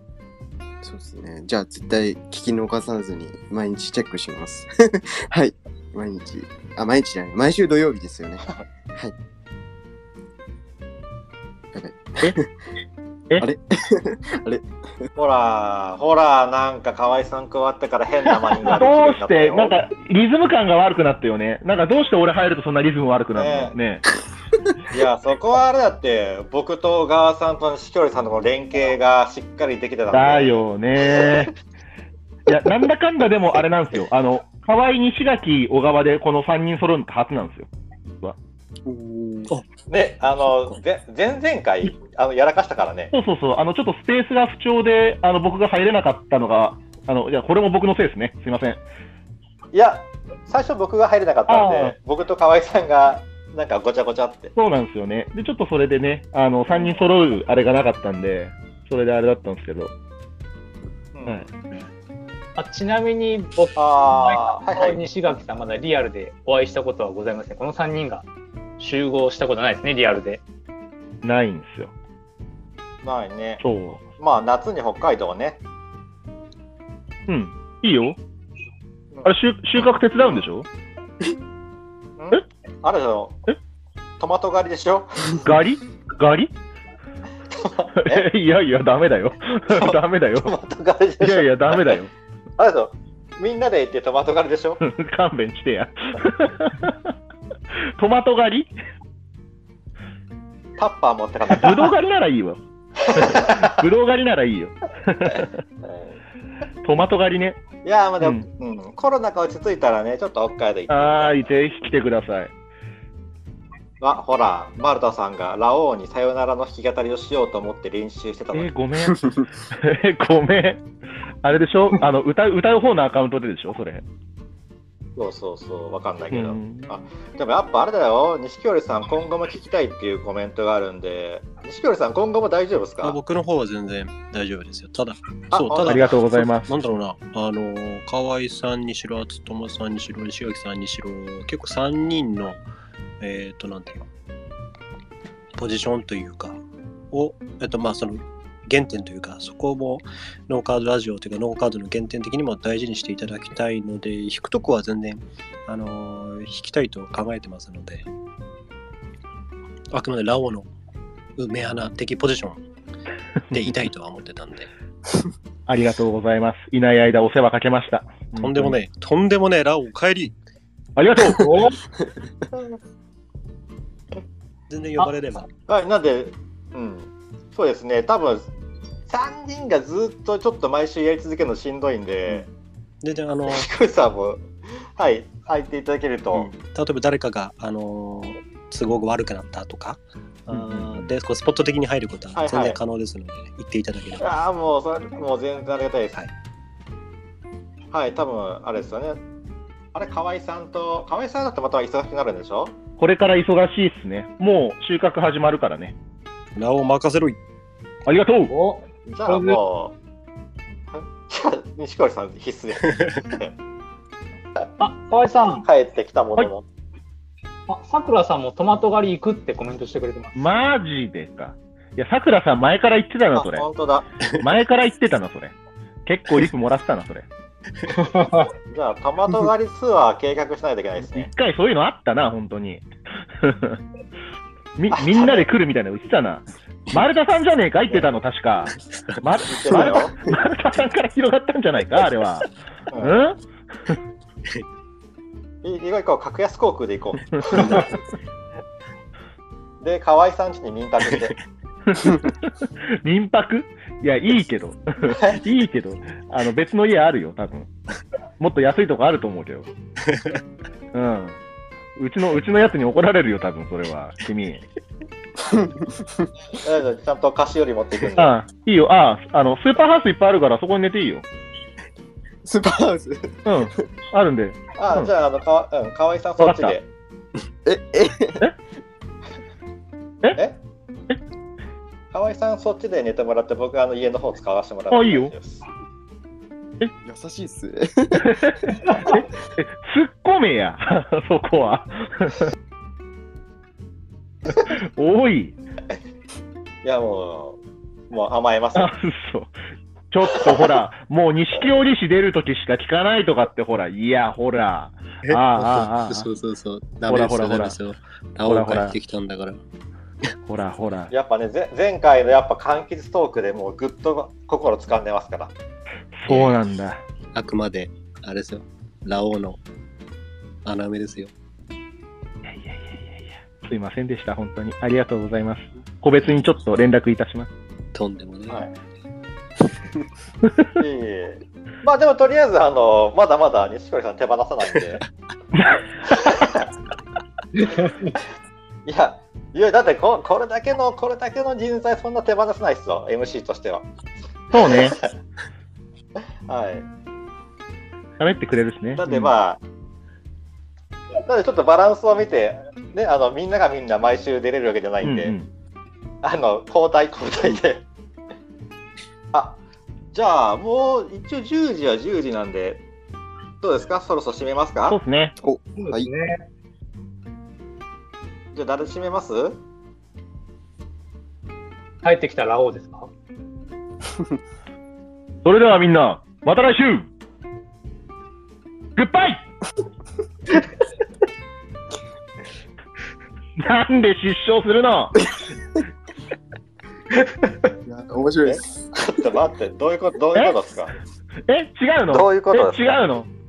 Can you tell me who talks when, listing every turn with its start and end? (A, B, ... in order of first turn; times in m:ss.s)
0:00.8-0:08.4 A
0:11.7-0:12.4 A
0:13.4-0:14.6 A
0:15.2-0:19.8 B
0:18.7-0:24.0 C
0:23.3-0:23.8 B
0:24.9-0:30.7 B
0:30.1-0:31.5 C
0:32.5-0:37.7 C
0:38.8-0:39.5 A
0:39.9-0:43.1 B
0:40.4-0:40.8 D
0:43.1-0:48.8 C
0:49.7-0:54.5 B
0:51.5-0:52.0 C
0:54.5-0:59.9 C
1:01.1-1:01.5 B
1:02.6-1:08.3 E
1:03.8-1:05.0 B
1:08.8-1:10.4 E
1:11.2-1:11.9 C
1:13.0-1:13.6 B
1:13.6-1:14.0 C
1:14.2-1:15.6 B
1:17.3-1:18.2 C
1:19.2-1:20.7 C
1:20.2-1:20.4 B
1:22.2-1:23.4 B
1:24.2-1:25.4 B
1:25.4-1:26.5 C
1:27.6-1:28.3 B
1:28.0-1:30.5 C
1:29.8-1:31.9 B
1:31.2-1:32.1 C
1:32.6-1:34.8 B
1:34.8-1:37.0 C
1:37.9-1:38.7 C
1:40.8-1:41.9 B
1:41.5-1:45.6 C
1:43.2-1:43.5 B
1:45.8-1:46.2 B
1:46.8-1:47.6 C
1:47.8-1:51.4 B
1:48.2-1:48.4 C
1:50.9-1:52.5 C
1:54.0-1:58.7 B
1:58.5-2:00.8 C
2:01.4-2:04.0 C
2:05.2-2:13.2 B
2:06.3-2:06.9 C
2:13.0-2:22.6 D
2:15.5-2:16.1 B
2:15.8-2:16.7 C
2:23.2-2:24.1 D
2:25.6-2:38.1 D
2:39.9-2:40.7 D
2:41.4-2:42.6 D
2:43.5-2:44.7 D
2:45.7-2:48.8 C
2:48.4-2:50.4 D
2:51.0-2:51.7 C
2:51.4-2:51.7 E
2:54.7-2:55.4 D
2:55.7-2:58.5 B
2:59.1-3:02.5 B
3:03.0-3:03.7 D
3:03.5-3:06.5 B
3:06.3-3:14.4 D
3:10.5-3:11.1 C
3:12.4-3:12.8 B
3:14.2-3:16.2 B
3:17.9-3:19.2 B
3:19.9-3:22.7 B
3:23.0-3:25.9 C
3:26.6-3:27.4 D
3:28.0-3:28.5 C
3:28.5-3:29.6 E
3:29.1-3:30.0 B
3:30.9-3:33.5 B
3:34.8-3:35.6 E
3:35.6-3:36.6 B
3:37.7-3:40.4 E
3:40.4-3:43.7 C
3:43.3-3:44.0 B
3:44.3-3:45.5 C
3:46.0-3:47.3 C
3:48.2-3:48.4 E
3:48.7-3:51.3 B
3:51.0-3:52.8 C
3:53.4-3:53.8 C
3:54.8-4:03.4 C
3:54.9-3:55.5 B
3:58.9-3:59.2 D
3:59.5-4:00.2 B
3:59.7-4:00.0 A
4:02.9-4:03.2 B
4:05.6-4:07.9 B
4:09.8-4:11.4 B
4:12.0-4:12.4 C
4:13.0-4:17.7 C
4:18.4-4:19.7 C
4:20.1-4:20.4 D
4:20.9-4:21.4 C
4:22.0-4:24.6 C
4:25.4-4:26.3 A
4:26.6-4:28.4 B
4:28.2-4:31.2 C
4:32.4-4:33.6 A
4:33.4-4:35.1 C
4:34.8-4:36.8 B
4:36.4-4:36.8 C
4:37.6-4:38.4 A
4:42.1-4:45.6 B
4:44.9-4:45.3 C
4:47.0-4:49.0 A
4:48.2-4:52.5 C
4:54.6-4:55.6 C
4:56.8-4:57.6 B
4:58.1-4:58.9 B
4:58.7-4:59.5 C
5:00.1-5:06.3 C
5:05.2-5:09.6 D
5:07.0-5:07.8 C
5:08.4-5:09.0 C
5:10.4-5:11.1 C
5:11.1-5:15.5 B
5:16.2-5:17.0 C
5:16.3-5:16.6 D
5:17.3-5:19.6 D
5:20.6-5:21.3 D
5:22.4-5:27.5 C
5:27.9-5:28.7 D
5:30.8-5:35.0 B
5:35.5-5:35.8 C
5:36.1-5:36.7 B
5:38.8-5:43.9 B
5:44.5-5:45.0 C
5:44.6-5:45.1 B
5:46.5-5:46.8 B
5:48.2-5:49.3 C
5:49.0-5:49.6 B
5:51.2-5:55.4 B
5:55.0-5:55.5 C
5:56.2-5:57.8 B
5:59.3-5:59.6 B
6:00.1-6:02.8 B
6:03.6-6:05.0 B
6:04.9-6:05.4 C
6:05.4-6:06.1 A
6:05.8-6:06.4 E
6:08.5-6:09.6 B
6:12.0-6:13.1 E
6:15.4-6:17.1 C
6:19.0-6:19.4 C
6:23.6-6:25.2 C
6:27.8-6:29.1 A
6:28.4-6:30.9 B
6:31.5-6:33.3 C
6:32.1-6:33.0 B